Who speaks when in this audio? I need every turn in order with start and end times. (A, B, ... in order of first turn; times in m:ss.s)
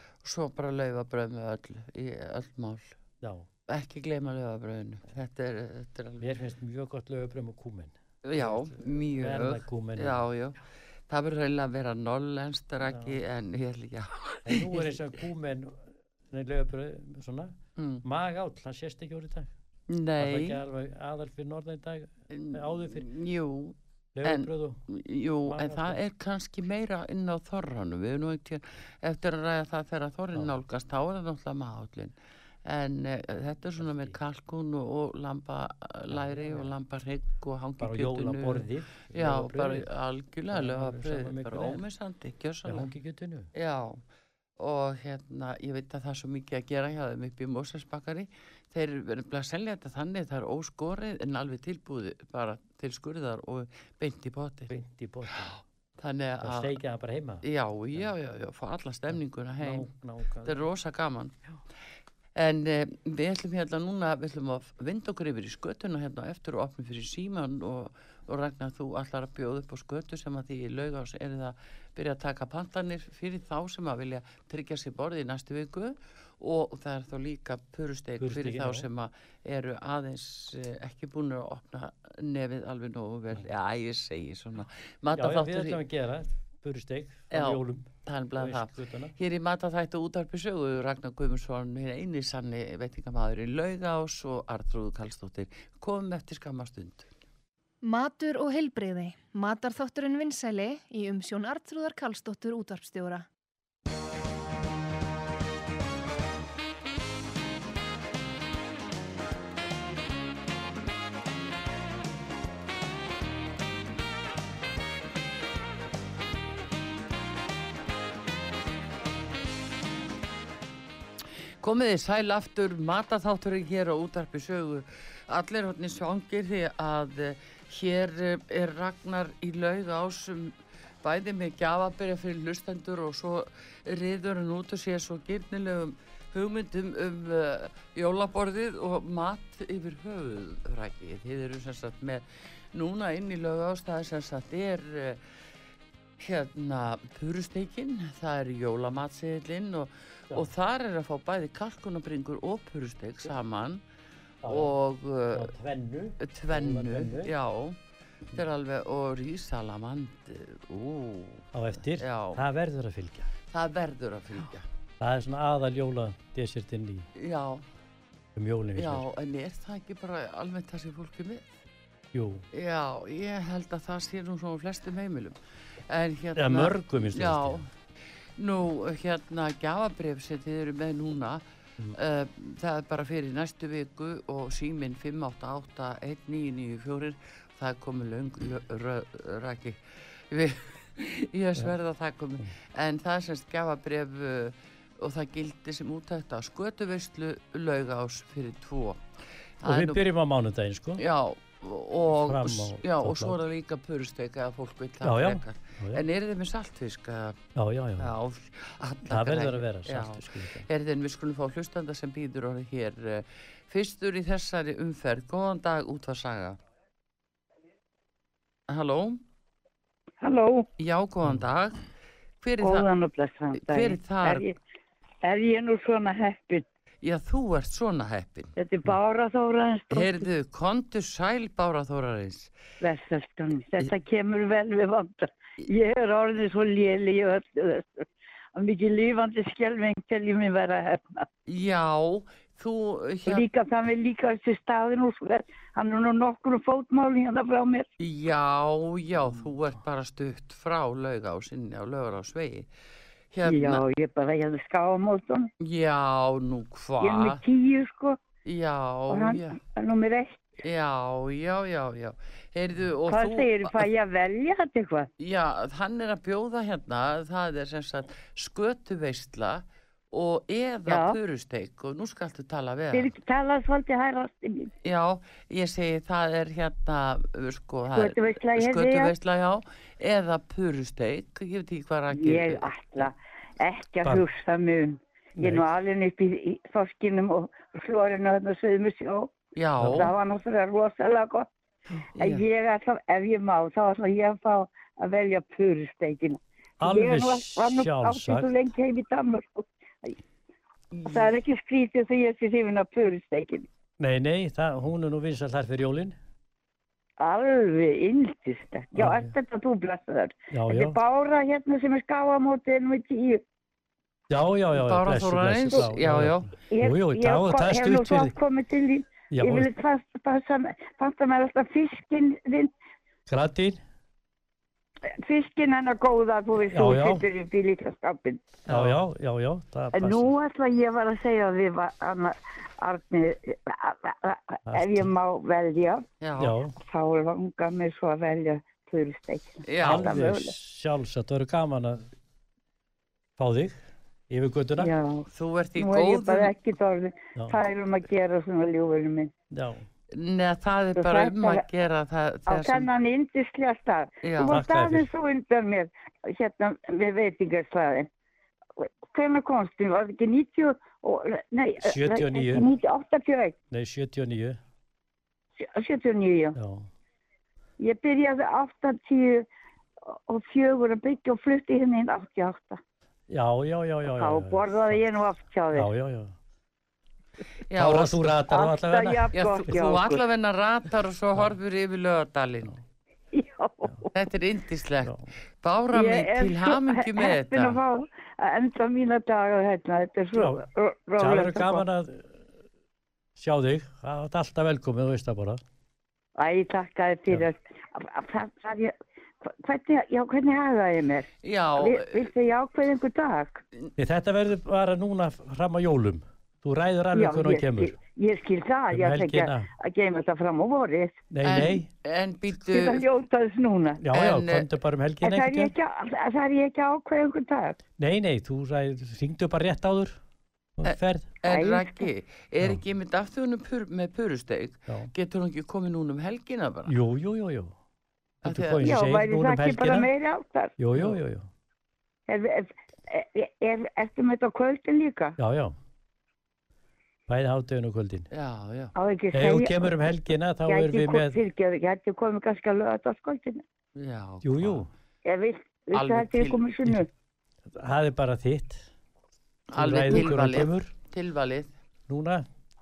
0:00.2-0:03.0 A
0:03.2-0:03.5 B
0:03.7-0:06.3 A
0:06.2-0:10.2 B
0:08.2-0:15.0 A
0:12.8-0:13.2 B
0:14.4-0:19.5 B
0:17.8-0:18.0 A
0:19.9-0:20.6 A
0:20.2-0:23.1 B
0:22.3-0:42.9 A
0:24.1-0:24.8 B
0:25.4-0:26.0 B
0:33.8-0:34.2 B
0:36.1-0:36.7 B
0:37.8-0:39.9 B
0:40.5-0:41.8 B
0:42.6-0:43.5 B
0:43.5-0:44.0 A
0:44.6-0:54.7 A
0:54.7-0:55.5 B
0:56.0-0:56.8 A
0:56.4-0:58.1 B
0:57.4-0:59.9 A
0:59.1-1:00.7 B
1:00.4-1:01.3 A
1:02.3-1:25.8 A
1:18.2-1:18.9 B
1:25.1-1:29.1 B
1:27.3-1:37.1 A
1:37.8-1:43.2 C
2:01.6-2:25.2 A
2:26.2-2:33.8 A
2:34.4-2:34.7 B
2:34.4-2:35.5 A
2:35.3-2:37.3 B
2:36.2-2:37.8 A
2:38.3-2:42.4 A
2:41.5-2:43.3 B
2:43.5-2:44.6 A
2:45.0-2:47.1 B
2:47.1-2:47.6 A
2:48.3-2:49.1 B
2:48.8-2:51.6 A
2:52.1-2:52.4 B
2:52.5-2:55.4 A
2:55.9-2:57.7 A
2:56.3-2:57.7 B
2:58.4-3:19.0 A
3:19.6-3:20.0 A
3:19.6-3:21.0 B
3:21.0-3:27.4 A
3:22.1-3:23.4 B
3:25.0-3:26.0 B
3:27.5-3:28.1 B
3:28.0-3:36.6 A
3:29.0-3:30.7 B
3:38.7-3:39.2 A
3:40.2-3:40.7 D
3:40.8-3:41.8 A
3:42.4-3:42.9 A
3:42.6-3:44.6 D
3:43.6-3:44.5 A
3:45.2-3:46.6 D
3:47.0-3:48.5 A
3:48.6-3:50.2 D
3:49.9-3:52.5 A
3:52.8-4:01.2 D
4:01.5-4:03.4 A
4:03.2-4:07.9 D
4:08.0-4:12.7 A
4:13.3-4:13.8 A
4:13.4-4:15.5 D
4:15.6-4:17.4 A
4:17.0-4:18.2 D
4:18.4-4:19.6 A
4:19.1-4:20.4 D
4:20.6-4:23.9 A
4:23.1-4:25.1 D
4:25.2-4:33.1 A
4:30.8-4:31.2 D
4:32.9-4:34.7 D
4:34.8-4:42.7 A
4:37.9-4:39.1 D
4:42.1-4:49.3 D
4:45.4-4:45.6 B
4:49.6-4:50.1 A
4:49.8-4:50.1 B
4:49.9-4:51.5 D
4:52.2-4:52.4 A
4:52.2-5:00.2 D
4:56.8-4:58.5 B
5:00.9-5:01.2 A
5:01.0-5:03.7 D
5:04.0-5:06.2 B
5:07.2-5:13.4 D
5:08.9-5:09.3 B
5:10.5-5:11.0 B
5:14.3-5:18.3 B
5:14.7-5:16.5 A
5:16.7-5:22.7 D
5:19.3-5:19.7 B
5:23.3-5:23.8 B
5:25.1-5:28.6 D
5:26.7-5:27.2 B
5:28.7-5:29.0 A
5:28.7-5:30.3 B
5:29.9-5:36.0 D
5:34.7-5:35.1 B
5:36.2-5:36.6 A
5:36.4-5:36.8 B
5:36.8-5:40.5 D
5:39.6-5:40.2 A
5:39.8-5:42.0 B
5:43.4-5:44.9 B
5:44.8-5:49.3 D
5:45.3-5:46.5 A
5:49.5-5:49.9 B
5:50.1-5:52.9 A
5:51.0-5:51.6 D
5:52.5-5:58.1 D
5:54.2-5:54.6 A
5:54.5-5:55.1 B
5:58.8-6:03.5 D
6:01.8-6:02.7 B
6:03.7-6:04.6 B
6:05.6-6:06.6 D
6:06.6-6:06.9 B
6:07.8-6:09.4 D
6:10.1-6:12.8 D
6:13.3-6:15.0 B
6:14.1-6:15.9 D
6:15.7-6:16.3 B
6:17.7-6:18.4 A
6:17.7-6:19.8 B
6:18.5-6:20.2 D
6:19.3-6:22.8 A
6:23.3-6:24.1 D
6:24.1-6:27.8 A
6:25.0-6:25.3 B
6:25.9-6:31.8 D
6:30.3-6:30.6 B
6:31.2-6:32.3 B
6:33.4-6:35.6 B
6:36.4-6:43.6 D
6:41.4-6:42.3 A
6:44.0-6:48.0 B
6:47.1-6:51.2 D
6:48.9-6:49.7 B
6:51.3-6:51.9 B
6:51.4-6:53.0 A
6:52.7-6:54.0 D
6:54.0-6:55.7 B
6:54.1-6:54.7 A
6:55.2-6:57.8 D
6:58.0-7:00.2 B
7:00.8-7:01.3 B
7:00.8-7:07.0 A
7:01.4-7:02.1 D
7:04.9-7:05.1 B
7:06.9-7:07.7 B
7:08.4-7:08.8 A
7:08.4-7:10.1 B
7:08.8-7:10.7 D
7:10.8-7:11.5 B
7:12.3-7:15.4 D
7:15.4-7:15.7 B
7:17.3-7:18.3 B
7:18.3-7:18.9 A
7:19.0-7:19.9 D
7:19.3-7:21.4 B
7:20.7-7:23.6 D
7:24.0-7:24.8 A
7:24.4-7:24.9 B
7:25.2-7:27.1 D
7:25.9-7:26.6 A
7:27.7-7:28.8 B
7:29.7-7:31.7 A
7:29.7-7:30.9 B
7:32.1-7:32.4 B